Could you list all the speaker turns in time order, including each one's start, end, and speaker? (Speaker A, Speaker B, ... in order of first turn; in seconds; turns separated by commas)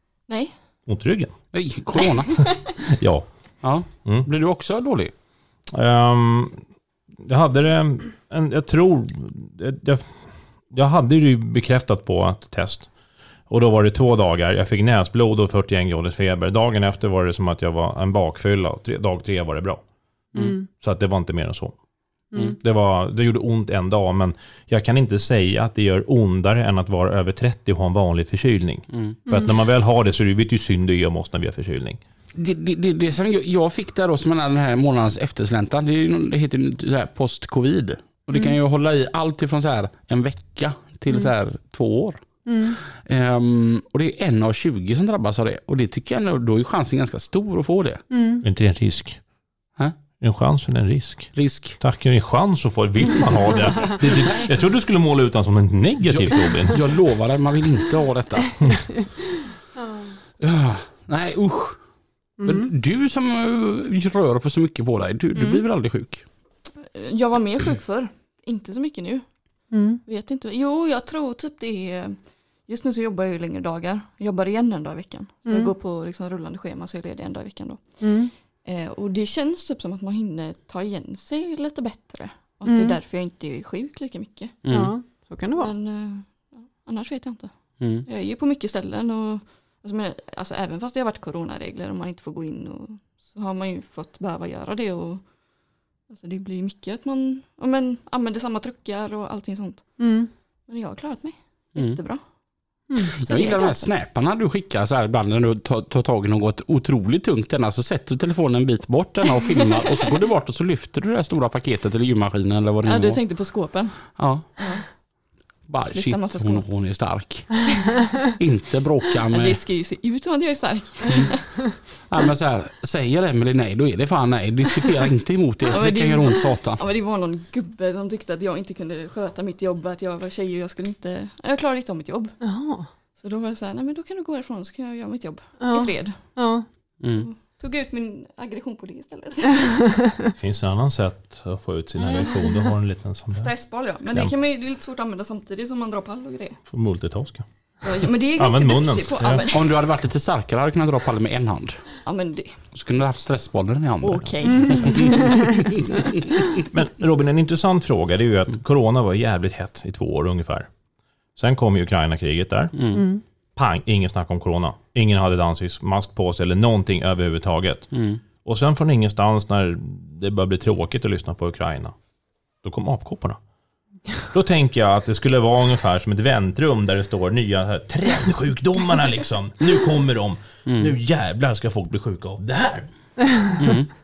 Speaker A: 0.3-0.5, Speaker B: 0.9-1.3, Speaker C: 1.5-2.4, Speaker B: 2.8-3.3, Speaker C: 3.6-5.1, Speaker B: 5.7-6.6, Speaker B: 7.2-12.9, Speaker B: 13.5-19.8, Speaker D: 20.4-20.6, Speaker B: 20.7-21.7, Speaker B: 22.5-32.0, Speaker C: 32.3-48.0, Speaker D: 42.5-42.8, Speaker D: 48.1-48.4, Speaker B: 48.4-49.2, Speaker B: 50.2-56.9, Speaker C: 51.3-51.8, Speaker C: 54.0-54.5, Speaker C: 56.0-58.7, Speaker C: 60.4-61.8, Speaker D: 62.4-62.7, Speaker C: 62.4-66.2, Speaker A: 65.3-65.6, Speaker A: 66.8-69.2, Speaker D: 69.7-70.0, Speaker A: 70.0-77.8, Speaker D: 75.5-75.7, Speaker D: 78.0-78.3, Speaker A: 78.6-84.6, Speaker D: 82.6-83.0, Speaker C: 84.6-84.9, Speaker D: 84.7-85.7, Speaker A: 85.5-87.5, Speaker C: 87.8-88.0, Speaker A: 88.0-95.2, Speaker A: 96.1-99.9, Speaker D: 100.0-100.3, Speaker A: 100.7-102.2, Speaker C: 103.0-113.2, Speaker A: 103.1-103.8, Speaker A: 109.5-110.0, Speaker A: 112.8-114.8, Speaker C: 114.2-114.4, Speaker C: 115.7-119.6, Speaker A: 115.9-116.6, Speaker A: 117.8-118.0, Speaker A: 119.3-121.6, Speaker C: 121.1-121.3, Speaker C: 122.1-126.8, Speaker A: 125.7-132.4, Speaker D: 132.4-132.9, Speaker A: 133.2-136.2, Speaker D: 135.6-136.6, Speaker C: 137.0-137.3, Speaker A: 137.1-139.8, Speaker D: 139.7-140.3, Speaker B: 140.4-143.5, Speaker A: 142.0-142.7, Speaker A: 143.4-146.6, Speaker B: 146.7-147.4, Speaker A: 147.8-149.7, Speaker B: 148.3-149.4, Speaker C: 149.5-151.8, Speaker A: 152.0-152.6, Speaker C: 152.7-156.1, Speaker A: 154.0-155.6, Speaker D: 154.4-155.7, Speaker B: 156.6-160.7, Speaker B: 161.3-162.9, Speaker C: 162.7-163.0, Speaker D: 162.9-163.2, Speaker B: 163.6-167.9, Speaker C: 167.9-168.2, Speaker B: 168.4-171.9, Speaker B: 172.6-173.4, Speaker B: 174.3-182.9, Speaker C: 180.7-180.9, Speaker C: 183.6-183.9